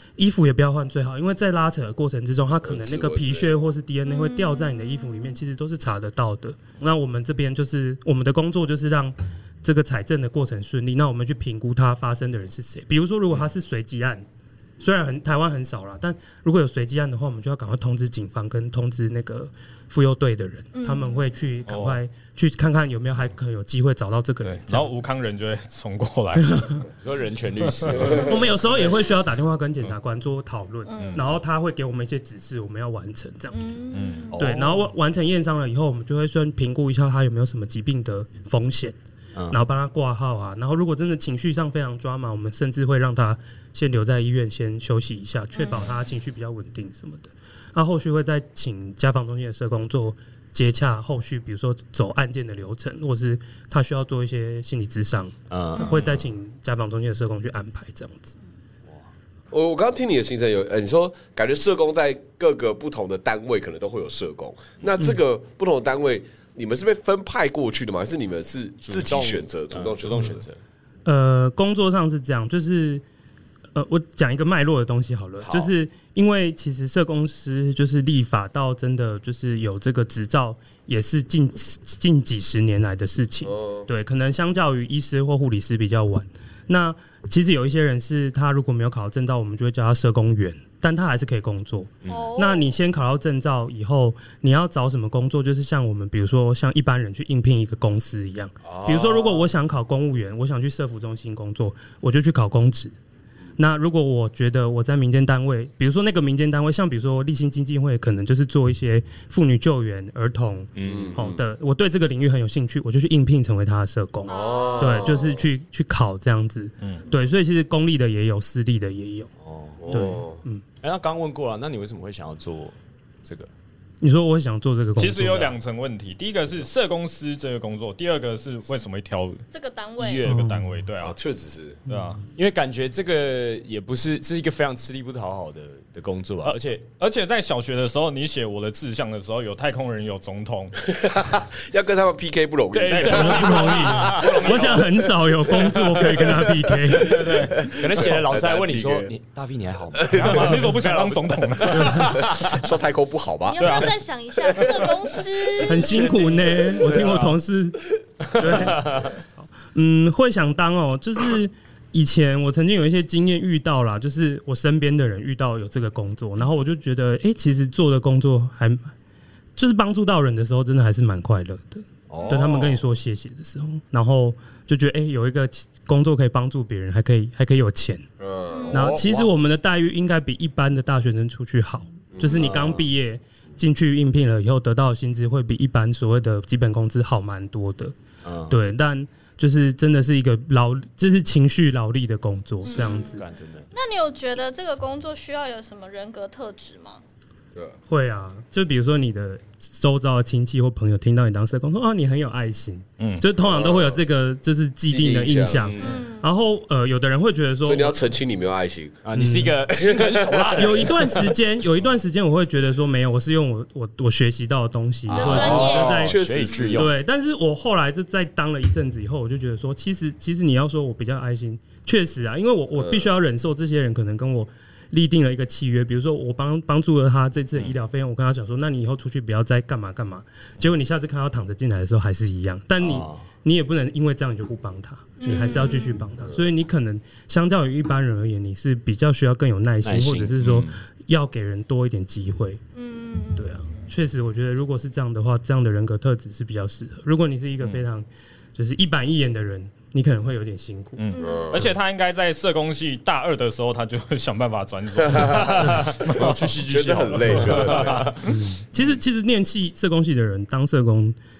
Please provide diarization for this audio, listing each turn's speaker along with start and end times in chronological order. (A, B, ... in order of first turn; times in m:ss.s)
0:00.2-0:14.2 A
0:02.6-0:03.5 B
0:04.1-0:05.4 C
0:14.8-0:24.9 A
0:20.7-0:21.2 C
0:21.7-0:22.0 D
0:24.6-0:26.9 D
0:26.4-0:26.8 A
0:27.0-0:28.5 E
0:27.7-0:28.1 D
0:28.0-0:33.8 A
0:30.9-0:31.2 C
0:33.5-0:34.4 C
0:33.9-0:34.3 D
0:34.3-0:34.8 E
0:34.3-0:39.0 A
0:39.5-0:58.4 A
0:45.6-0:45.9 C
0:55.5-0:56.2 E
0:59.5-1:10.5 B
1:08.8-1:10.6 E
1:11.0-1:13.0 A
1:13.8-1:43.0 A
1:15.4-1:15.7 B
1:23.4-1:23.9 B
1:32.1-1:32.7 C
1:38.6-1:39.4 B
1:43.6-1:59.3 A
1:50.7-1:51.2 E
1:50.8-1:51.4 B
1:54.3-1:55.3 C
1:54.3-1:55.4 B
1:59.4-2:00.0 E
1:59.8-2:00.4 B
1:59.9-2:00.6 A
2:00.8-2:03.5 E
2:04.0-2:05.6 A
2:05.0-2:09.4 D
2:09.5-2:10.3 C
2:10.0-2:11.2 D
2:10.2-2:10.8 A
2:11.0-2:11.8 B
2:11.9-2:12.2 D
2:11.9-2:12.2 A
2:12.4-2:16.8 E
2:16.4-2:20.8 D
2:20.9-2:24.0 B
2:22.7-2:24.8 E
2:22.9-2:25.0 D
2:23.1-2:27.3 A
2:25.5-2:29.1 B
2:27.0-2:27.8 D
2:27.7-2:32.6 E
2:30.0-2:30.6 B
2:30.1-2:32.3 D
2:31.8-2:32.1 A
2:32.2-2:33.9 B
2:33.5-2:36.0 C
2:33.6-2:34.0 D
2:34.6-2:34.9 B
2:35.6-2:48.9 A
2:35.8-2:37.0 E
2:38.4-2:39.2 E
2:49.6-2:58.1 A
2:52.1-2:52.8 E
2:58.2-2:59.0 B
2:58.5-2:58.9 C
2:58.7-2:59.3 E
2:58.7-3:07.9 A
3:02.1-3:02.8 B
3:02.3-3:02.8 E
3:08.2-3:08.6 E
3:08.5-3:13.2 A
3:12.6-3:17.0 C
3:12.7-3:13.7 E
3:17.9-3:28.0 A
3:23.0-3:23.2 D
3:23.4-3:24.0 B
3:24.9-3:25.9 B
3:25.5-3:26.1 E
3:25.8-3:26.3 C
3:27.6-3:29.0 B
3:29.0-3:31.3 E
3:29.1-3:29.6 A
3:29.7-3:31.0 B
3:30.6-4:02.6 A
3:35.1-3:36.1 C
3:35.1-3:37.0 E
3:35.1-3:36.9 B
3:42.8-3:43.1 B
3:52.8-3:53.2 E
3:55.2-3:56.0 C
3:59.8-4:00.8 E
4:02.8-4:03.8 C
4:03.4-4:11.0 A
4:11.0-4:16.5 D
4:11.1-4:11.5 C
4:11.2-4:11.7 B
4:15.0-4:15.8 B
4:15.3-4:18.2 E
4:16.3-4:18.1 B
4:17.3-4:18.2 D
4:18.3-4:21.2 A